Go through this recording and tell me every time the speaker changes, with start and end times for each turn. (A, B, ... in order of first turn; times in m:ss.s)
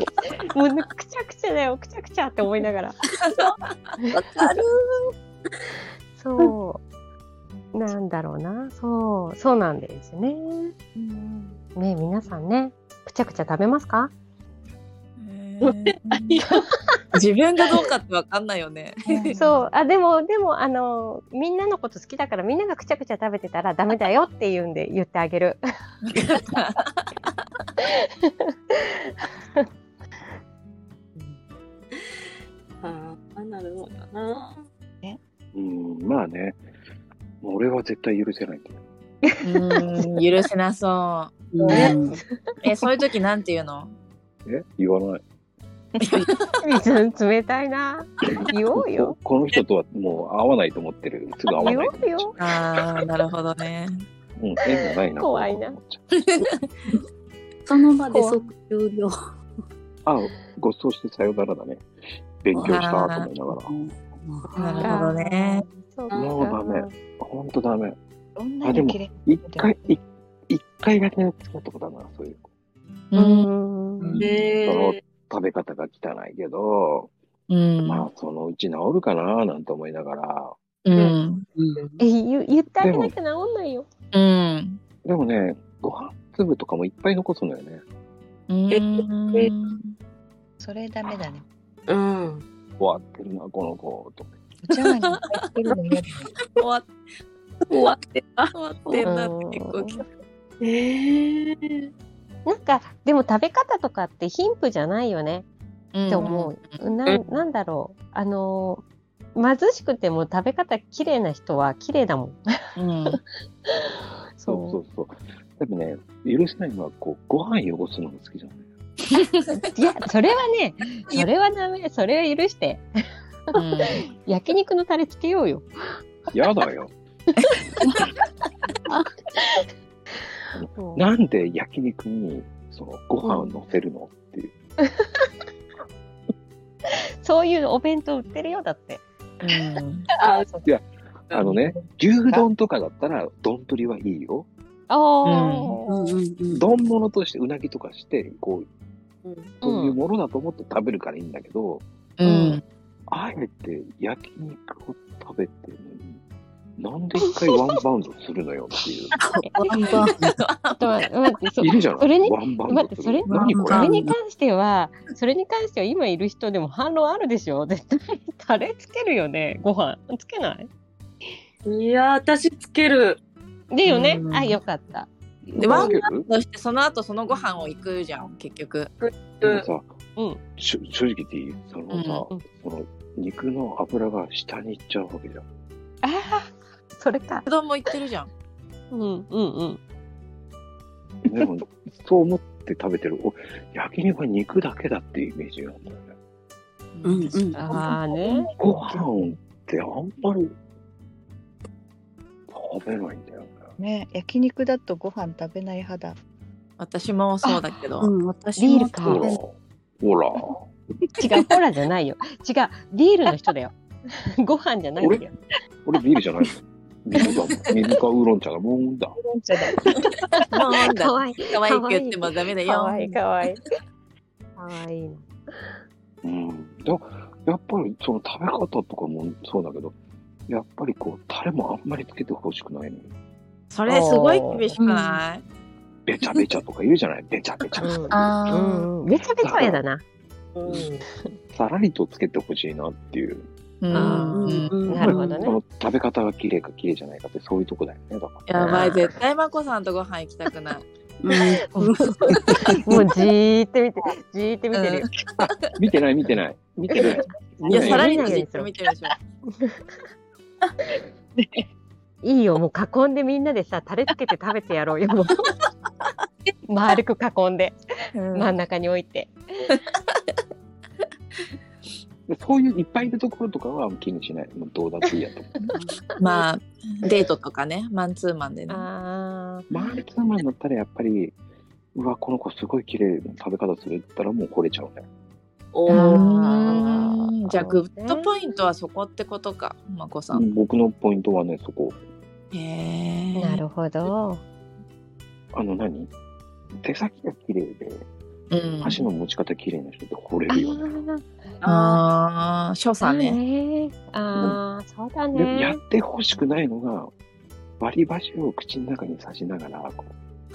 0:00.4-0:03.0 A
0:04.2-0:04.7 B
0:06.2-0:06.8 A
0:07.7-0:10.7 A
0:11.0-0:11.6 C
0:11.8-0:14.1 A
0:15.2-0:16.4 D
0:16.1-0:16.4 C
0:17.1-0:19.4 D
0:19.1-0:19.7 C
0:19.4-0:25.6 A
0:26.1-0:27.0 D
0:28.3-0:28.8 A
0:32.8-0:34.6 B
0:35.5-0:36.6 E
0:37.4-0:38.8 E
0:39.4-0:41.9 D
0:41.5-0:42.2 F
0:41.7-0:42.0 A
0:42.6-0:43.9 D
0:44.4-0:45.2 E
0:46.0-0:46.5 D
0:46.6-0:49.2 A
0:48.3-0:52.5 E
0:51.6-0:52.4 A
0:52.4-0:54.0 D
0:54.4-0:56.0 E
0:55.2-0:55.8 A
0:56.1-0:56.6 D
0:57.7-0:59.2 F
1:00.0-1:01.9 E
1:02.4-1:03.7 E
1:02.5-1:02.8 F
1:02.6-1:03.3 D
1:03.5-1:04.6 F
1:04.6-1:05.6 D
1:04.8-1:06.9 A
1:06.1-1:06.4 B
1:06.1-1:08.0 E
1:08.4-1:09.8 C
1:08.6-1:12.5 E
1:13.1-1:13.5 D
1:13.2-1:14.2 A
1:14.2-1:15.0 B
1:14.6-1:17.1 E
1:17.5-1:18.1 D
1:17.8-1:20.6 E
1:20.8-1:21.4 D
1:21.6-1:21.9 F
1:22.0-1:23.9 A
1:22.8-1:23.1 E
1:24.1-1:24.8 D
1:25.0-1:27.8 E
1:28.5-1:29.9 D
1:28.7-1:29.5 B
1:30.6-1:31.4 C
1:31.9-1:32.4 B
1:32.8-1:34.3 E
1:34.6-1:36.3 C
1:36.6-1:37.0 D
1:37.7-1:39.1 B
1:37.7-1:38.0 D
1:38.5-1:40.0 D
1:39.0-1:40.0 A
1:40.6-1:41.9 B
1:42.5-1:45.4 A
1:45.9-1:46.8 D
1:46.1-1:48.8 A
1:49.4-1:52.4 A
1:52.8-1:53.2 D
1:54.4-1:54.8 A
1:54.5-1:58.6 E
1:59.1-1:59.5 D
1:59.6-2:02.8 A
2:03.6-2:04.1 D
2:04.2-2:05.7 A
2:06.3-2:06.9 E
2:10.5-2:14.5 E
2:10.8-2:11.0 A
2:14.8-2:15.3 A
2:16.9-2:19.0 A
2:19.4-2:20.1 D
2:20.2-2:20.5 B
2:20.6-2:24.5 E
2:21.3-2:21.6 B
2:24.9-2:26.1 A
2:25.2-2:25.8 D
2:25.9-2:26.7 F
2:26.5-2:28.7 E
2:29.2-2:29.5 B
2:29.6-2:30.0 A
2:29.6-2:31.8 E
2:32.2-2:32.6 D
2:32.2-2:32.6 F
2:33.1-2:36.2 E
2:36.8-2:39.1 E
2:39.1-2:40.4 F
2:39.9-2:41.0 D
2:40.8-2:50.7 A
2:41.6-2:43.9 E
2:43.3-2:43.6 D
2:43.5-2:44.2 F
2:51.6-2:53.2 B
2:53.7-2:55.9 A
2:53.9-2:54.6 D
2:55.6-2:58.9 D
2:55.6-2:56.3 E
2:55.7-2:56.0 B
2:59.0-2:59.7 B
2:59.4-2:59.9 E
3:00.6-3:05.4 E
3:01.9-3:02.3 D
3:06.0-3:07.5 A
3:07.5-3:08.3 D
3:08.9-3:09.8 A
3:11.2-3:16.1 E
3:17.0-3:18.0 D
3:17.0-3:17.6 F
3:17.6-3:18.5 A
3:18.6-3:20.6 E
3:22.5-3:23.8 E
3:23.8-3:26.2 C
3:26.8-3:28.1 D
3:27.5-3:29.4 F
3:28.6-3:29.2 A
3:29.0-3:30.7 E
3:31.2-3:33.7 A
3:34.4-3:35.4 A
3:35.0-3:35.2 E
3:35.8-3:39.2 E
3:37.2-3:37.8 D
3:39.2-3:39.8 C
3:40.4-3:43.8 A
3:40.5-3:43.2 D
3:44.6-3:45.8 A
3:46.2-3:50.0 E
3:50.5-3:53.1 E
3:53.7-3:55.4 D
3:53.9-3:54.7 A
3:54.8-3:55.2 F
3:56.1-3:58.3 E
3:57.8-4:00.0 A
3:58.1-3:58.9 F
3:59.1-3:59.8 E
4:00.6-4:01.1 B
4:01.5-4:03.5 E
4:03.8-4:05.4 D
4:03.9-4:05.6 A
4:04.0-4:05.1 F
4:04.9-4:09.0 E
4:08.5-4:10.9 D
4:11.2-4:12.6 F
4:11.9-4:12.8 D
4:12.8-4:15.1 A
4:14.7-4:15.8 D
4:15.4-4:18.4 E
4:16.9-4:18.7 A
4:17.7-4:19.2 D
4:21.4-4:21.6 C
4:22.2-4:25.5 A
4:26.7-4:27.8 A
4:28.2-4:28.5 D
4:28.3-4:29.4 A
4:32.3-4:35.7 E
4:35.7-4:36.1 F
4:36.2-4:38.8 D
4:38.7-4:39.7 A
4:39.7-4:41.3 E
4:42.0-4:45.0 E
4:45.7-4:46.3 B
4:45.9-4:48.3 A
4:45.9-4:50.5 D
4:50.3-4:52.0 E
4:52.5-4:53.6 D
4:53.4-4:54.4 A
4:55.5-4:56.1 E
4:56.8-4:58.0 E
4:58.5-4:59.0 D
4:58.8-5:01.0 E
5:00.5-5:01.3 A
5:01.6-5:02.0 B
5:01.6-5:03.4 D
5:03.0-5:05.8 A
5:05.3-5:07.1 E
5:07.8-5:10.1 E